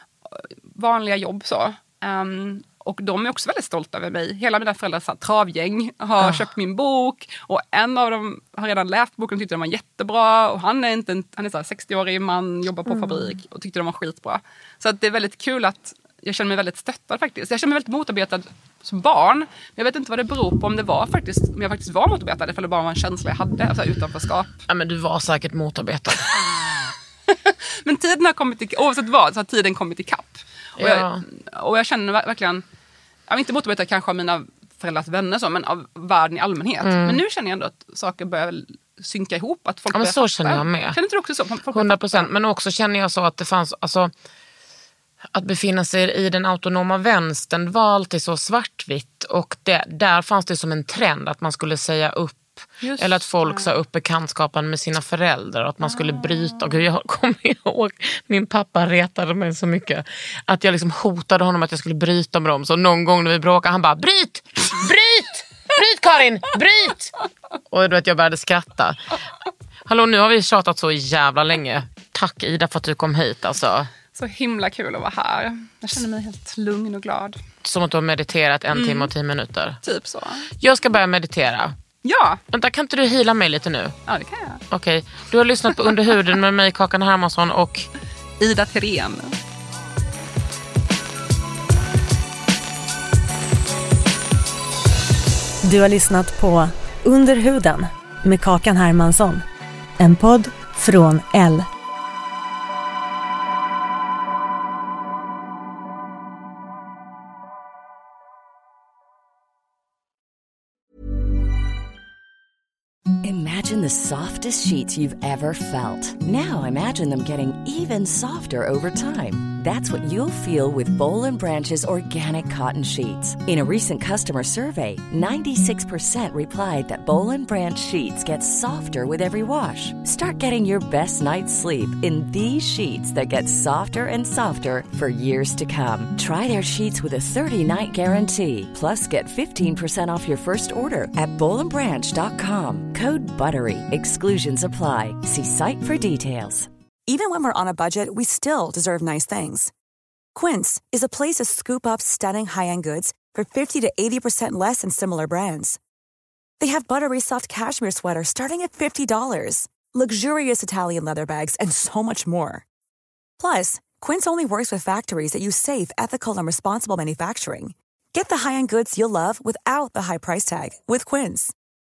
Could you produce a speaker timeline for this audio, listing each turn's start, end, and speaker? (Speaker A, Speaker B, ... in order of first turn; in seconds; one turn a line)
Speaker A: 0.3-24.6
Speaker B: 6.2-6.5
Speaker B: 12.9-13.4
Speaker B: 24.7-26.3
Speaker A: 27.3-32.6
Speaker B: 30.8-31.2
Speaker A: 33.3-42.3
Speaker B: 36.8-37.2
Speaker B: 39.9-41.0
Speaker B: 41.7-44.1
Speaker B: 45.3-67.1
Speaker A: 52.8-53.7
Speaker A: 55.9-56.8
Speaker B: 67.7-69.0
Speaker B: 69.9-73.9
Speaker A: 74.1-77.4
Speaker B: 77.6-79.8
Speaker A: 78.7-79.1
Speaker A: 79.8-80.5
Speaker B: 80.6-81.7
Speaker A: 82.0-82.4
Speaker B: 82.5-84.0
Speaker A: 84.1-84.6
Speaker B: 84.7-87.9
Speaker A: 88.4-89.3
Speaker C: 95.6-99.4
Speaker C: 100.0-101.7
Speaker D: 113.2-146.7
Speaker E: 147.1-149.7
Speaker E: 150.3-155.8
Speaker E: 156.6-162.6
Speaker E: 163.4-171.5